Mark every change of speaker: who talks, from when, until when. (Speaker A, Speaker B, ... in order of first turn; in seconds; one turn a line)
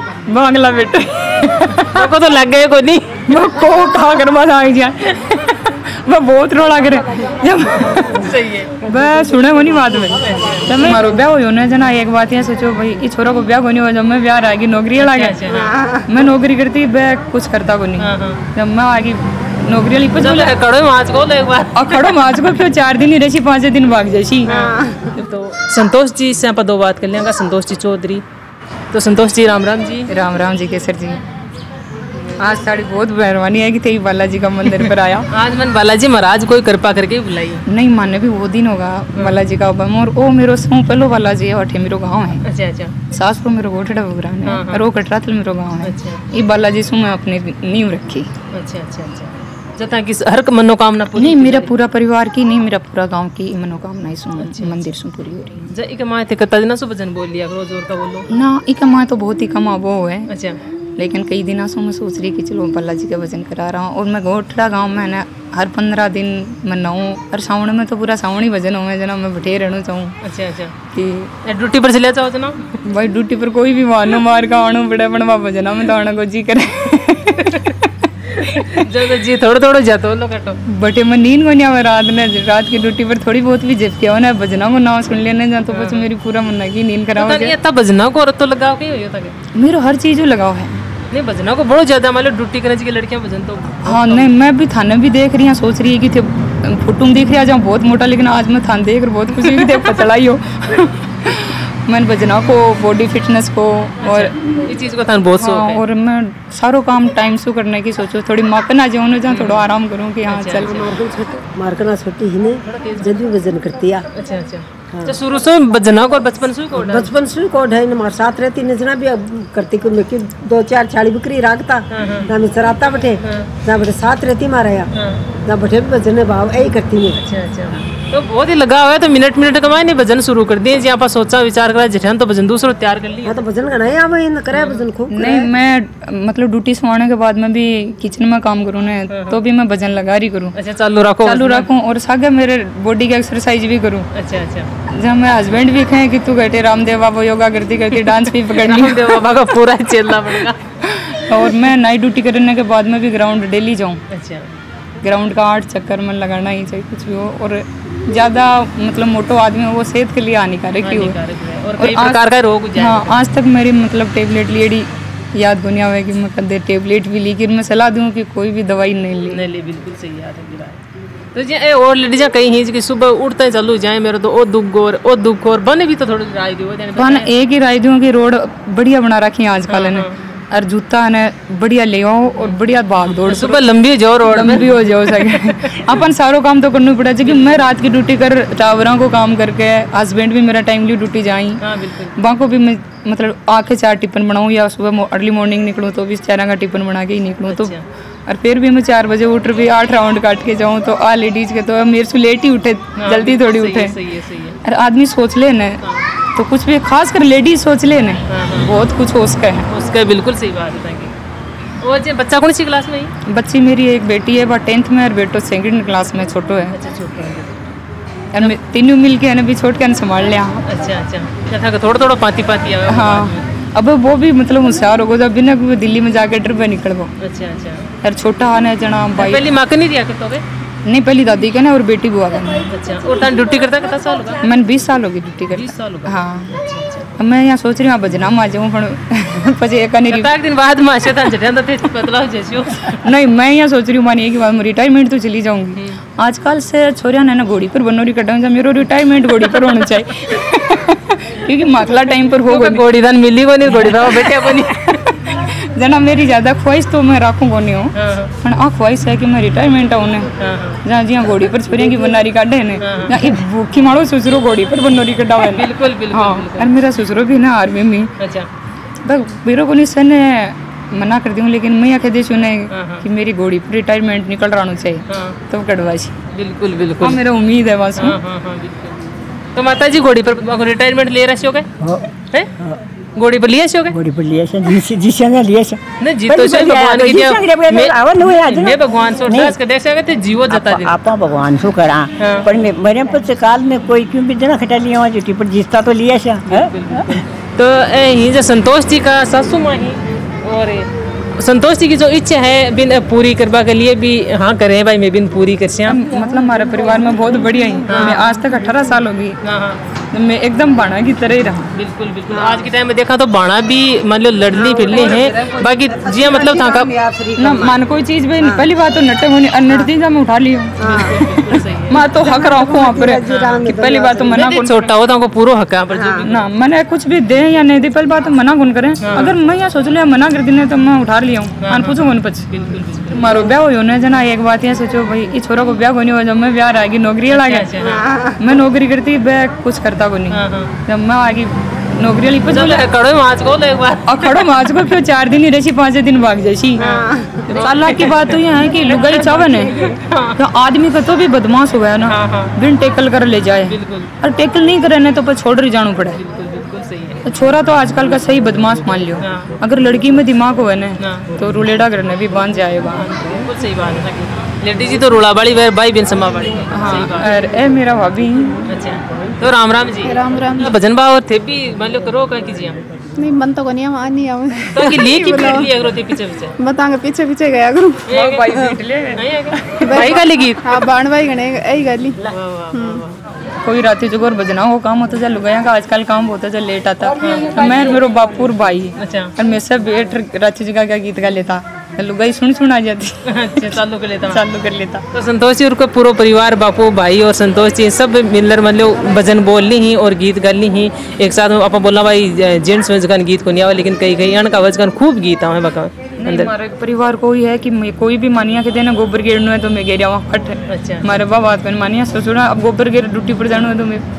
Speaker A: 0.3-2.1
Speaker B: 1.8-3.3
Speaker A: 3.2-8.3
Speaker B: 8.1-8.8
Speaker A: 8.8-20.5
Speaker B: 10.2-10.9
Speaker B: 15.0-15.8
Speaker B: 18.0-18.4
Speaker B: 20.2-22.5
Speaker A: 21.7-24.6
Speaker B: 24.5-28.2
Speaker B: 28.9-30.1
Speaker A: 30.1-31.2
Speaker A: 32.4-35.3
Speaker B: 35.3-37.6
Speaker A: 37.7-42.4
Speaker B: 42.4-42.9
Speaker A: 43.1-48.3
Speaker B: 44.5-44.8
Speaker B: 45.8-46.2
Speaker B: 48.5-51.7
Speaker A: 51.1-55.7
Speaker B: 54.4-54.9
Speaker B: 55.7-58.3
Speaker A: 58.3-60.3
Speaker B: 60.3-60.6
Speaker A: 61.0-70.2
Speaker B: 70.2-70.7
Speaker A: 70.9-71.3
Speaker B: 71.4-72.8
Speaker A: 72.8-78.8
Speaker B: 77.4-77.7
Speaker B: 78.3-80.6
Speaker A: 80.7-87.5
Speaker B: 85.7-86.1
Speaker B: 87.2-89.4
Speaker A: 89.5-90.8
Speaker B: 91.1-94.3
Speaker A: 93.8-104.3
Speaker B: 99.3-100.0
Speaker B: 104.0-105.8
Speaker A: 105.4-110.7
Speaker B: 109.3-109.7
Speaker B: 110.3-111.0
Speaker C: 110.7-114.1
Speaker B: 112.6-113.2
Speaker B: 114.1-117.1
Speaker C: 114.9-115.2
Speaker C: 116.8-124.9
Speaker B: 121.9-122.3
Speaker B: 123.2-123.5
Speaker B: 124.9-125.2
Speaker C: 125.4-127.2
Speaker B: 127.2-133.4
Speaker C: 133.2-135.5
Speaker B: 134.5-134.8
Speaker A: 135.1-140.6
Speaker B: 139.1-139.4
Speaker B: 140.6-141.7
Speaker A: 141.2-144.1
Speaker B: 144.1-144.7
Speaker A: 144.9-149.2
Speaker B: 148.0-150.6
Speaker A: 150.8-154.0
Speaker B: 154.1-154.5
Speaker A: 155.0-161.2
Speaker B: 160.8-163.2
Speaker A: 161.8-162.2
Speaker A: 162.7-169.4
Speaker B: 169.3-170.8
Speaker B: 171.3-177.3
Speaker A: 176.9-183.6
Speaker B: 179.7-180.1
Speaker B: 183.1-185.8
Speaker A: 184.2-191.6
Speaker B: 187.2-187.6
Speaker B: 191.6-192.1
Speaker A: 192.2-197.8
Speaker B: 197.5-197.8
Speaker A: 198.3-204.0
Speaker B: 203.0-204.6
Speaker A: 204.6-205.8
Speaker A: 206.3-209.7
Speaker B: 208.3-208.7
Speaker B: 209.7-211.1
Speaker B: 211.8-213.1
Speaker A: 213.2-216.8
Speaker B: 216.7-217.6
Speaker A: 218.3-220.6
Speaker B: 220.7-223.4
Speaker A: 222.9-227.1
Speaker B: 227.2-227.8
Speaker A: 228.0-229.5
Speaker B: 229.2-230.4
Speaker A: 230.8-232.7
Speaker B: 232.7-234.4
Speaker A: 234.4-236.6
Speaker B: 235.5-237.1
Speaker A: 237.2-240.3
Speaker B: 240.1-243.0
Speaker A: 242.8-252.8
Speaker B: 252.4-255.0
Speaker A: 253.7-268.1
Speaker B: 257.9-258.3
Speaker B: 260.4-260.8
Speaker B: 262.8-263.3
Speaker B: 265.4-266.7
Speaker B: 268.2-268.5
Speaker A: 269.0-276.2
Speaker B: 272.7-273.1
Speaker B: 275.1-275.4
Speaker B: 276.3-277.2
Speaker A: 277.0-278.2
Speaker B: 277.9-279.0
Speaker B: 279.5-281.7
Speaker D: 281.8-282.1
Speaker B: 283.2-284.0
Speaker D: 283.9-289.5
Speaker B: 286.0-291.0
Speaker D: 290.5-297.2
Speaker B: 292.2-292.5
Speaker B: 296.4-306.0
Speaker A: 305.9-309.4
Speaker B: 307.9-308.2
Speaker B: 309.4-309.8
Speaker A: 310.1-311.7
Speaker B: 311.7-316.9
Speaker C: 312.3-312.6
Speaker C: 314.5-317.7
Speaker A: 317.4-321.2
Speaker B: 317.4-317.7
Speaker B: 320.8-322.0
Speaker C: 320.8-321.1
Speaker A: 321.9-324.8
Speaker C: 321.9-324.5
Speaker B: 323.2-323.6
Speaker B: 324.3-326.4
Speaker C: 325.9-326.2
Speaker A: 326.2-332.5
Speaker B: 329.0-329.4
Speaker B: 331.6-333.4
Speaker A: 333.1-337.7
Speaker B: 337.3-338.2
Speaker A: 338.2-342.9
Speaker B: 340.3-340.7
Speaker B: 342.5-344.9
Speaker A: 344.1-349.8
Speaker B: 346.8-350.4
Speaker A: 350.4-356.2
Speaker B: 352.1-352.5
Speaker B: 353.7-354.1
Speaker B: 356.2-357.2
Speaker A: 357.2-363.1
Speaker B: 359.2-359.5
Speaker B: 361.0-361.3
Speaker B: 362.9-367.4
Speaker A: 366.7-368.7
Speaker B: 368.7-372.8
Speaker E: 370.0-370.7
Speaker E: 373.2-375.7
Speaker B: 374.7-376.5
Speaker E: 376.6-378.1
Speaker B: 378.1-380.7
Speaker A: 378.1-380.1
Speaker E: 379.8-382.2
Speaker B: 382.2-383.2
Speaker E: 382.7-383.0
Speaker A: 383.6-395.0
Speaker B: 387.2-387.6
Speaker B: 389.0-389.3
Speaker B: 393.3-394.5
Speaker B: 395.1-406.5
Speaker A: 406.2-414.0
Speaker B: 410.7-411.1